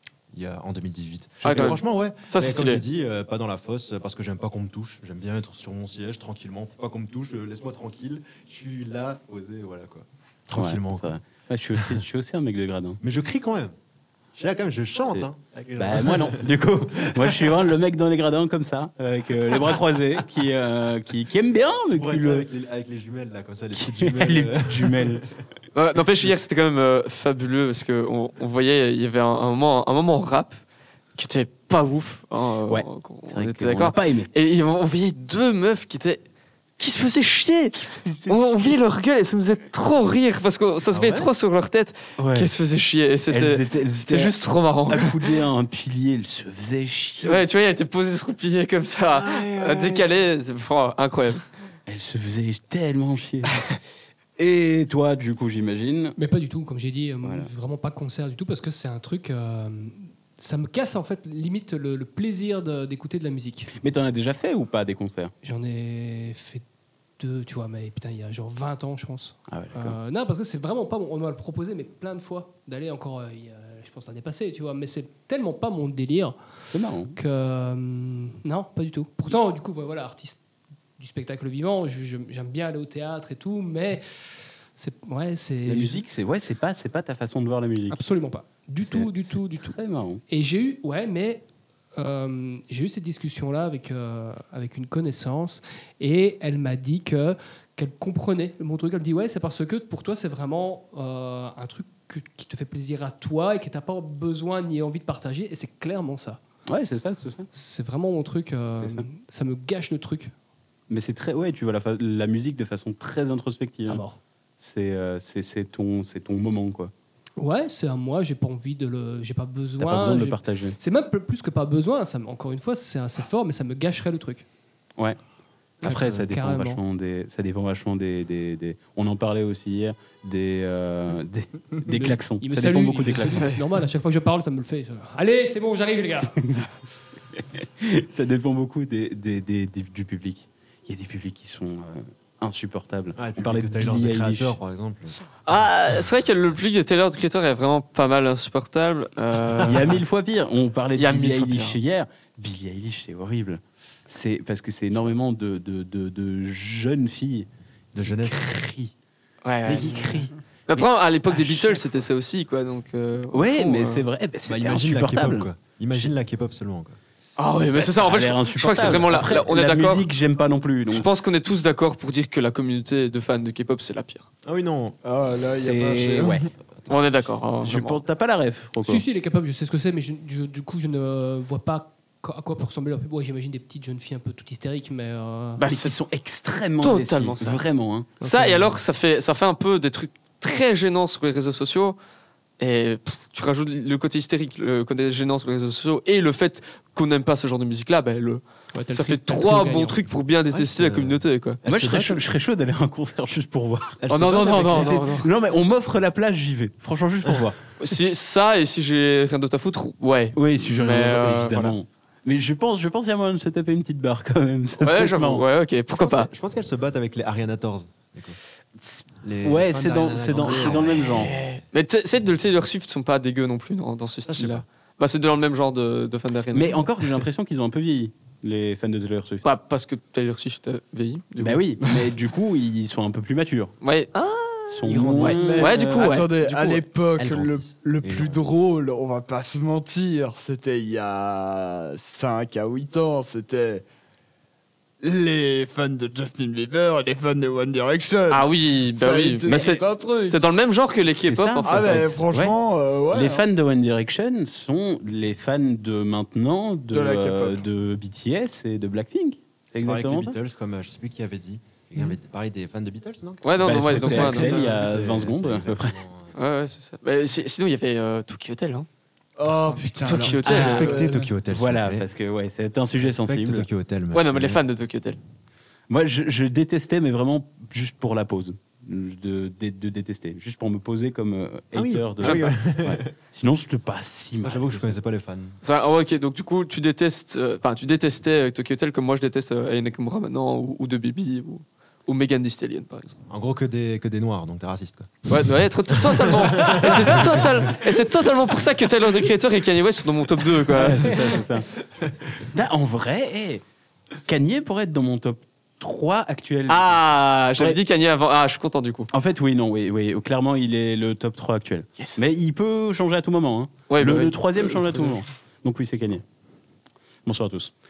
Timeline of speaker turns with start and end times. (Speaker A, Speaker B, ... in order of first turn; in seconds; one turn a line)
Speaker A: 0.3-11.1
Speaker B: 1.4-2.8
Speaker C: 10.5-13.0
Speaker A: 13.0-13.7
Speaker A: 14.3-17.6
Speaker C: 15.1-22.4
Speaker A: 21.9-25.2
Speaker C: 23.8-25.2
Speaker B: 25.7-30.6
Speaker B: 31.1-36.2
Speaker C: 32.7-34.3
Speaker B: 36.8-45.4
Speaker C: 37.8-38.7
Speaker A: 40.9-41.3
Speaker C: 42.2-42.5
Speaker C: 43.3-44.3
Speaker C: 44.9-47.4
Speaker B: 47.2-51.4
Speaker C: 49.2-50.0
Speaker C: 51.9-53.6
Speaker C: 54.4-56.1
Speaker D: 56.2-63.7
Speaker C: 57.2-57.5
Speaker C: 63.8-65.3
Speaker D: 65.4-66.6
Speaker D: 67.2-76.4
Speaker C: 69.5-70.0
Speaker C: 76.7-77.2
Speaker D: 77.2-80.4
Speaker D: 81.0-84.0
Speaker D: 84.8-86.1
Speaker C: 85.7-88.0
Speaker D: 87.9-89.8
Speaker C: 88.8-90.2
Speaker D: 90.3-91.4
Speaker D: 92.0-106.4
Speaker C: 106.7-107.5
Speaker D: 107.5-110.3
Speaker C: 108.8-109.0
Speaker C: 110.9-114.0
Speaker D: 113.8-114.2
Speaker C: 114.6-116.9
Speaker D: 117.4-124.5
Speaker C: 119.8-120.8
Speaker C: 125.8-133.6
Speaker D: 125.8-126.8
Speaker D: 131.9-136.4
Speaker C: 137.3-144.6
Speaker A: 143.2-145.2
Speaker B: 145.4-150.0
Speaker C: 149.6-157.5
Speaker B: 150.9-151.8
Speaker A: 157.9-158.4
Speaker C: 158.0-158.9
Speaker B: 159.4-164.0
Speaker A: 159.7-159.9
Speaker C: 159.7-160.3
Speaker C: 161.3-161.8
Speaker C: 163.3-166.1
Speaker A: 164.4-167.0
Speaker B: 167.4-170.1
Speaker C: 167.8-171.2
Speaker B: 170.9-174.3
Speaker A: 174.4-177.2
Speaker E: 175.0-176.4
Speaker C: 175.4-176.4
Speaker B: 176.9-178.0
Speaker C: 177.6-179.0
Speaker D: 178.8-185.6
Speaker B: 185.6-185.9
Speaker C: 185.7-188.1
Speaker B: 186.8-187.6
Speaker D: 188.2-188.8
Speaker B: 188.2-191.9
Speaker B: 192.6-198.4
Speaker D: 198.7-200.0
Speaker B: 198.9-201.6
Speaker A: 200.5-202.2
Speaker C: 201.7-207.6
Speaker A: 204.0-205.0
Speaker B: 204.1-205.3
Speaker A: 207.2-207.5
Speaker B: 207.8-211.7
Speaker C: 210.3-215.4
Speaker B: 214.8-216.3
Speaker A: 216.0-218.4
Speaker C: 218.8-221.3
Speaker A: 219.2-221.3
Speaker B: 220.4-226.9
Speaker A: 224.3-224.6
Speaker C: 226.5-229.4
Speaker B: 229.4-232.1
Speaker C: 231.4-233.7
Speaker B: 233.8-236.3
Speaker C: 234.7-236.0
Speaker A: 234.8-238.5
Speaker E: 235.4-243.8
Speaker E: 245.0-250.4
Speaker B: 248.3-252.1
Speaker C: 251.1-252.5
Speaker E: 251.7-253.5
Speaker C: 253.1-260.3
Speaker E: 256.9-257.6
Speaker A: 259.7-266.3
Speaker B: 263.4-264.8
Speaker C: 263.6-266.0
Speaker B: 266.3-268.9
Speaker E: 269.4-271.3
Speaker B: 269.7-270.9
Speaker C: 270.4-273.6
Speaker A: 270.4-272.1
Speaker A: 273.0-274.6
Speaker B: 274.1-275.2
Speaker C: 275.9-284.9
Speaker A: 281.7-283.1
Speaker B: 282.2-282.5
Speaker A: 284.4-285.6
Speaker B: 285.6-293.1
Speaker A: 293.3-295.3
Speaker B: 295.3-301.4
Speaker A: 295.9-297.4
Speaker C: 300.7-301.7
Speaker C: 302.5-303.6
Speaker C: 304.2-307.0
Speaker B: 306.7-309.1
Speaker C: 309.1-316.2
Speaker B: 313.9-315.2
Speaker C: 317.2-317.7